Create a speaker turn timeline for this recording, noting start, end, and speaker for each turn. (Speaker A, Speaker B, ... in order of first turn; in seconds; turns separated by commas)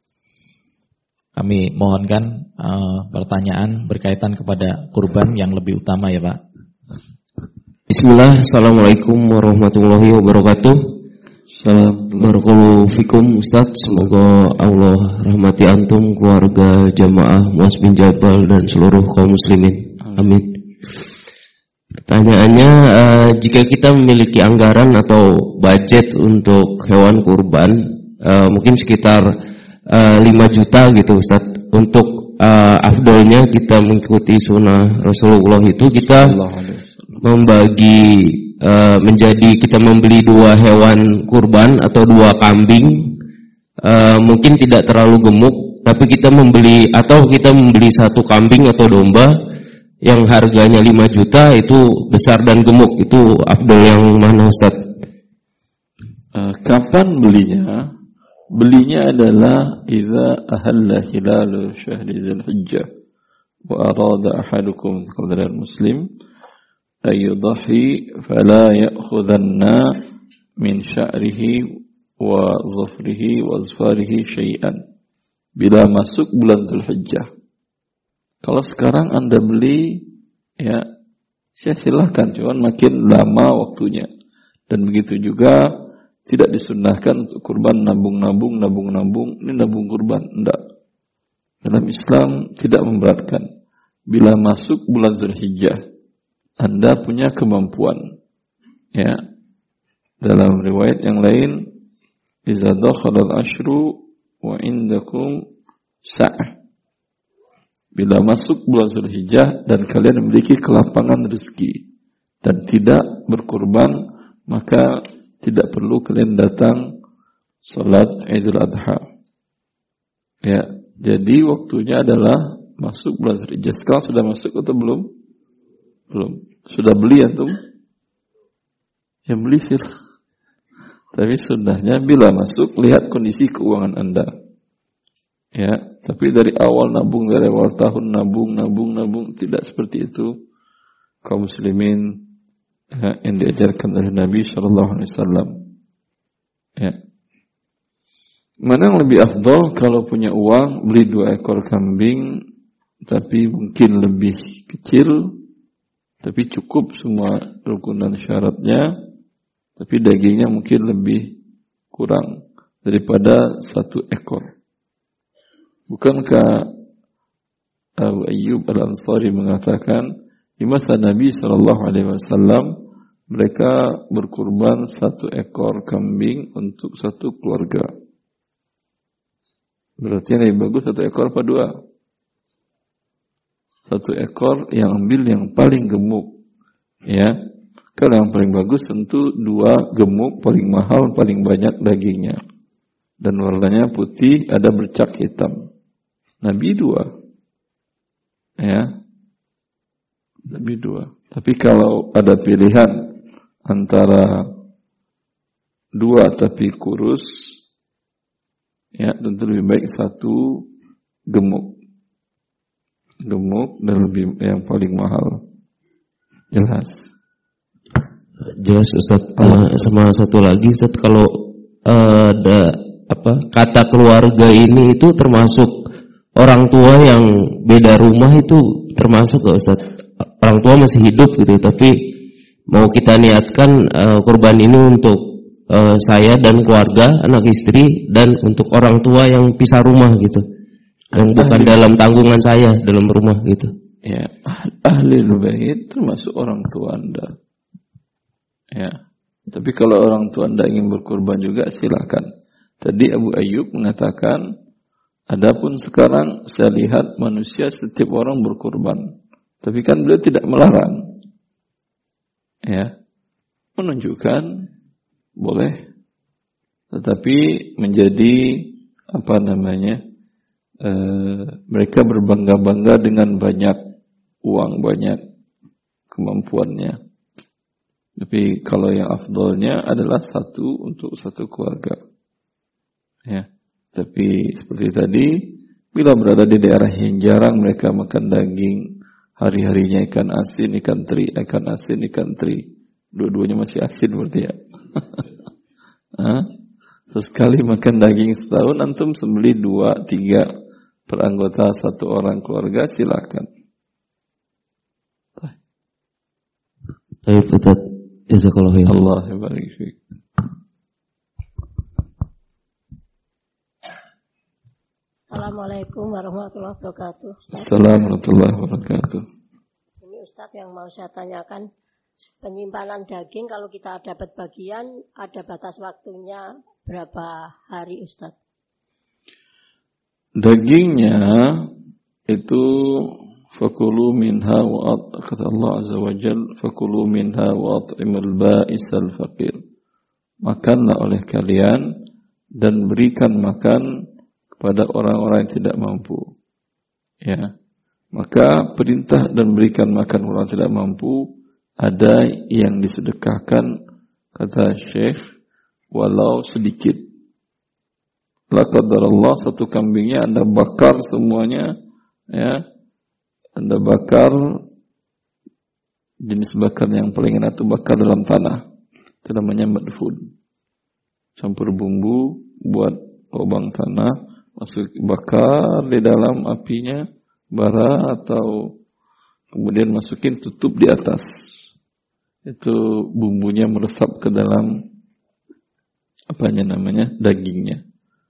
Speaker A: 1.4-6.4, Speaker B: 7.9-10.8, Speaker C: 11.5-12.3, Speaker B: 12.3-20.4, Speaker C: 20.0-20.3, Speaker B: 22.1-27.7, Speaker B: 28.2-29.2, Speaker B: 30.2-36.3, Speaker C: 35.9-37.2, Speaker B: 37.3-42.9, Speaker B: 43.9-49.3, Speaker B: 50.1-54.7, Speaker C: 56.3-57.8, Speaker C: 58.5-62.9, Speaker C: 63.7-66.0, Speaker C: 67.1-69.8, Speaker C: 70.6-71.6, Speaker C: 72.2-74.8, Speaker C: 75.6-77.3, Speaker C: 78.4-80.0, Speaker C: 81.6-84.1, Speaker C: 84.7-85.6, Speaker C: 86.3-90.6, Speaker C: 91.6-93.5, Speaker C: 94.1-95.8, Speaker C: 96.6-98.0, Speaker C: 100.2-101.6, Speaker C: 102.5-105.4, Speaker C: 106.0-106.5, Speaker C: 108.0-111.8, Speaker C: 112.4-114.0, Speaker C: 114.5-116.8, Speaker C: 117.7-119.0, Speaker C: 120.4-125.1, Speaker C: 126.1-127.6, Speaker C: 129.3-129.8, Speaker C: 131.2-134.3, Speaker C: 135.6-140.3, Speaker C: 141.2-142.2, Speaker C: 142.9-145.5, Speaker C: 148.6-152.3, Speaker C: 153.1-155.3, Speaker C: 156.2-158.9, Speaker C: 159.8-161.3, Speaker C: 161.9-162.3, Speaker C: 162.8-164.5, Speaker C: 165.9-166.7, Speaker C: 168.0-170.1, Speaker C: 170.6-172.7, Speaker C: 173.3-177.9, Speaker C: 180.0-181.7, Speaker C: 183.9-186.3, Speaker C: 187.1-187.3, Speaker C: 188.0-192.4, Speaker C: 193.2-195.6, Speaker C: 196.4-197.1, Speaker C: 198.6-198.9, Speaker C: 200.5-202.9, Speaker C: 203.7-204.4, Speaker C: 206.0-207.3, Speaker C: 209.0-210.7, Speaker C: 211.3-211.8, Speaker C: 213.2-215.4, Speaker C: 216.5-216.9, Speaker B: 218.7-221.2, Speaker C: 219.4-219.7, Speaker B: 221.9-222.5, Speaker B: 223.1-225.7, Speaker B: 226.4-229.8, Speaker B: 230.4-231.9, Speaker B: 232.7-235.2, Speaker B: 235.8-240.4, Speaker C: 241.1-241.8, Speaker B: 241.2-243.7, Speaker C: 244.1-247.3, Speaker C: 249.5-252.3, Speaker C: 252.8-254.4, Speaker C: 255.3-259.1, Speaker C: 259.6-261.0, Speaker C: 263.8-264.7, Speaker C: 265.4-265.8, Speaker C: 266.9-270.0, Speaker C: 270.8-273.8, Speaker C: 274.4-275.2, Speaker C: 276.1-277.0, Speaker C: 278.2-282.0, Speaker C: 283.3-292.6, Speaker C: 293.1-295.2, Speaker C: 296.2-296.5, Speaker C: 297.1-300.5, Speaker C: 301.1-303.5, Speaker B: 307.3-307.7, Speaker B: 308.3-308.8, Speaker C: 308.9-310.0, Speaker D: 315.3-317.7, Speaker C: 317.5-319.2, Speaker D: 320.0-321.6, Speaker D: 322.4-328.4, Speaker C: 330.4-331.7, Speaker C: 332.3-339.6, Speaker C: 340.4-341.8, Speaker C: 342.6-343.8, Speaker C: 344.6-346.3, Speaker C: 347.2-347.5, Speaker C: 348.1-353.7, Speaker C: 354.4-355.2, Speaker C: 355.9-357.0, Speaker C: 358.5-361.7, Speaker C: 362.3-362.6, Speaker C: 363.6-364.6, Speaker C: 366.2-368.6, Speaker C: 369.2-370.2, Speaker C: 371.4-378.7, Speaker C: 379.5-381.2, Speaker C: 382.5-384.7, Speaker C: 386.3-387.8